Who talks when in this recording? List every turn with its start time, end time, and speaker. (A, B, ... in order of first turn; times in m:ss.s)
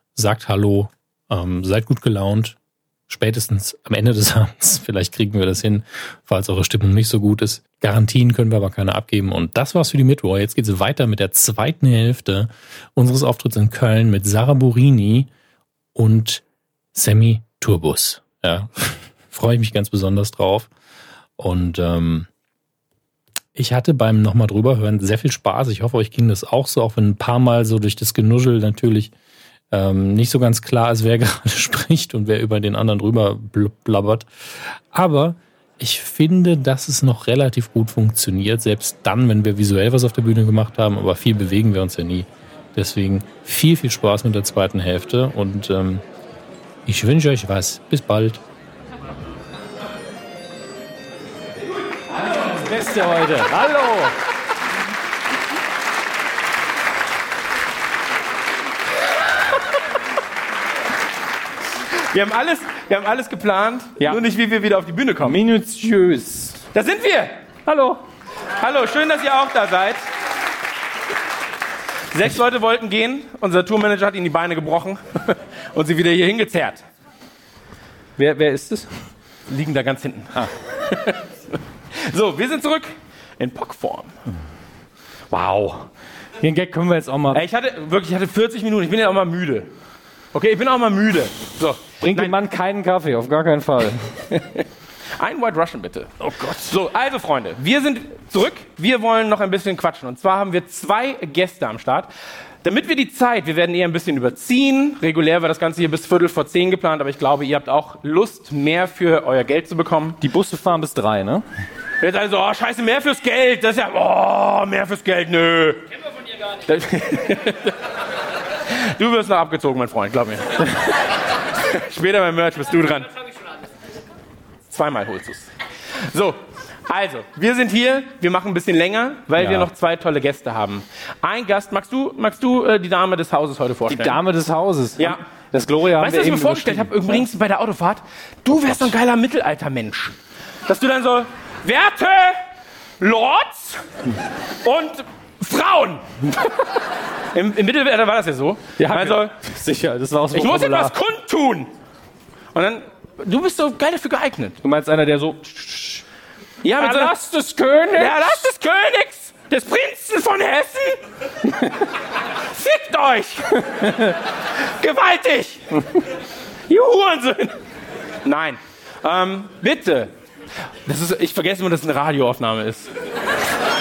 0:00.2-0:02.6 A
0:03.1-0:15.3 A
0:15.9-0:20.7 A
0:21.4-0:22.3 A
0:23.5-0:29.1 A
0:29.7-0:46.0 A
0:46.8-0:48.4 A
0:52.3-0:54.1 B
1:02.1-1:05.4 C
1:04.0-1:04.2 B
1:05.2-1:06.6 B
1:06.7-1:07.4 C
1:07.6-1:08.0 B
1:08.6-1:10.0 C
1:12.1-1:16.8 C
1:18.2-1:18.9 B
1:19.5-1:21.2 C
1:21.9-1:24.1 C
1:25.3-1:25.9 B
1:26.4-1:27.4 B
1:27.3-1:29.7 C
1:30.3-1:32.3 C
1:32.0-1:34.1 B
1:34.3-1:34.6 C
1:35.2-1:42.1 C
1:36.2-1:36.7 B
1:42.6-1:50.2 C
1:50.2-1:51.4 B
1:52.0-1:55.8 C
1:56.7-1:57.7 C
1:58.7-2:00.6 C
2:01.6-2:03.1 C
2:04.7-2:05.5 C
2:06.0-2:14.2 C
2:09.4-2:09.7 B
2:13.9-2:17.2 B
2:16.0-2:20.1 C
2:20.7-2:22.4 C
2:23.0-2:23.8 C
2:24.6-2:26.0 C
2:27.3-2:29.3 C
2:28.8-2:31.0 B
2:30.3-2:31.7 C
2:32.5-2:34.6 C
2:34.6-2:36.0 B
2:36.6-2:37.1 C
2:36.7-2:38.4 B
2:37.9-2:41.0 C
2:42.5-2:44.1 C
2:44.6-2:45.6 C
2:46.7-2:47.6 C
2:48.2-2:50.1 C
2:50.8-2:52.9 C